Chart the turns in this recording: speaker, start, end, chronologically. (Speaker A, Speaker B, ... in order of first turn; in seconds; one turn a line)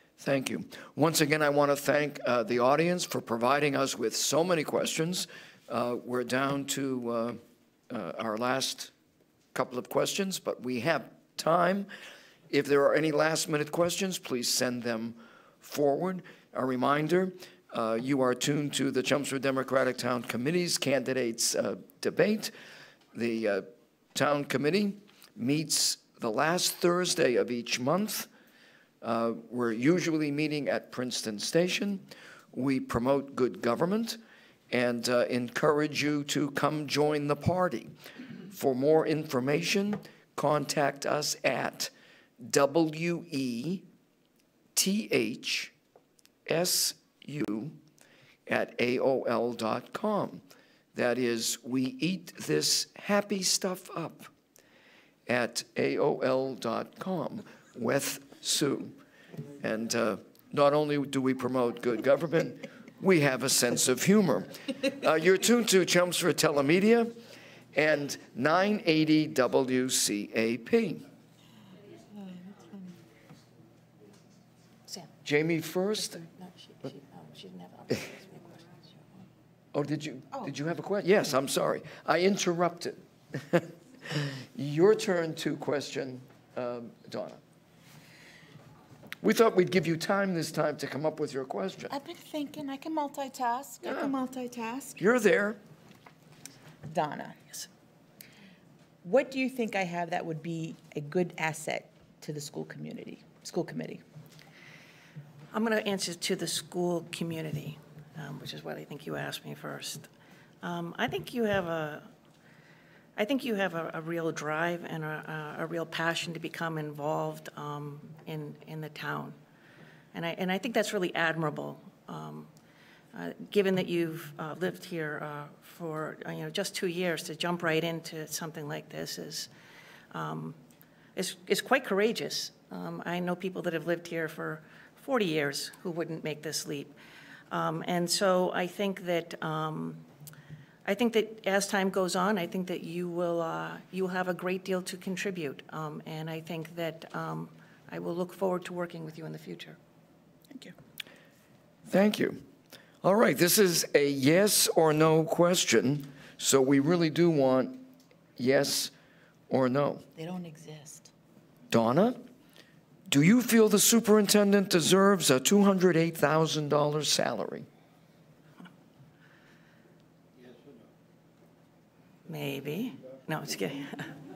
Speaker A: 0.2-7.4
Speaker A: 7.9-8.9
Speaker A: 9.5-11.9
Speaker A: 12.5-22.5
Speaker A: 23.1-28.3
Speaker A: 29.0-34.2
Speaker A: 34.7-37.9
Speaker A: 38.5-43.9
Speaker A: 44.8-45.7
Speaker A: 46.5-47.8
Speaker A: 48.5-50.4
Speaker A: 50.9-54.3
Speaker A: 55.3-58.9
Speaker A: 59.6-67.1
Speaker A: 67.7-71.0
Speaker A: 75.2-76.2
Speaker B: 76.1-78.8
Speaker A: 79.7-87.4
Speaker A: 89.2-91.9
Speaker C: 91.9-95.0
Speaker A: 93.8-94.1
Speaker A: 95.0-95.6
Speaker C: 96.9-97.4
Speaker C: 99.0-104.0
Speaker B: 105.5-110.1
Speaker B: 110.6-112.1
Speaker B: 113.2-119.4
Speaker B: 120.1-122.5
Speaker B: 123.1-129.5
Speaker B: 130.1-130.6
Speaker B: 131.2-136.9
Speaker B: 137.5-140.0
Speaker B: 140.8-149.8
Speaker A: 151.9-152.4
Speaker A: 153.0-157.8
Speaker A: 158.4-158.9
Speaker A: 159.5-160.1
Speaker C: 160.2-161.1
Speaker A: 161.7-162.2
Speaker A: 163.1-167.7
Speaker B: 172.3-174.1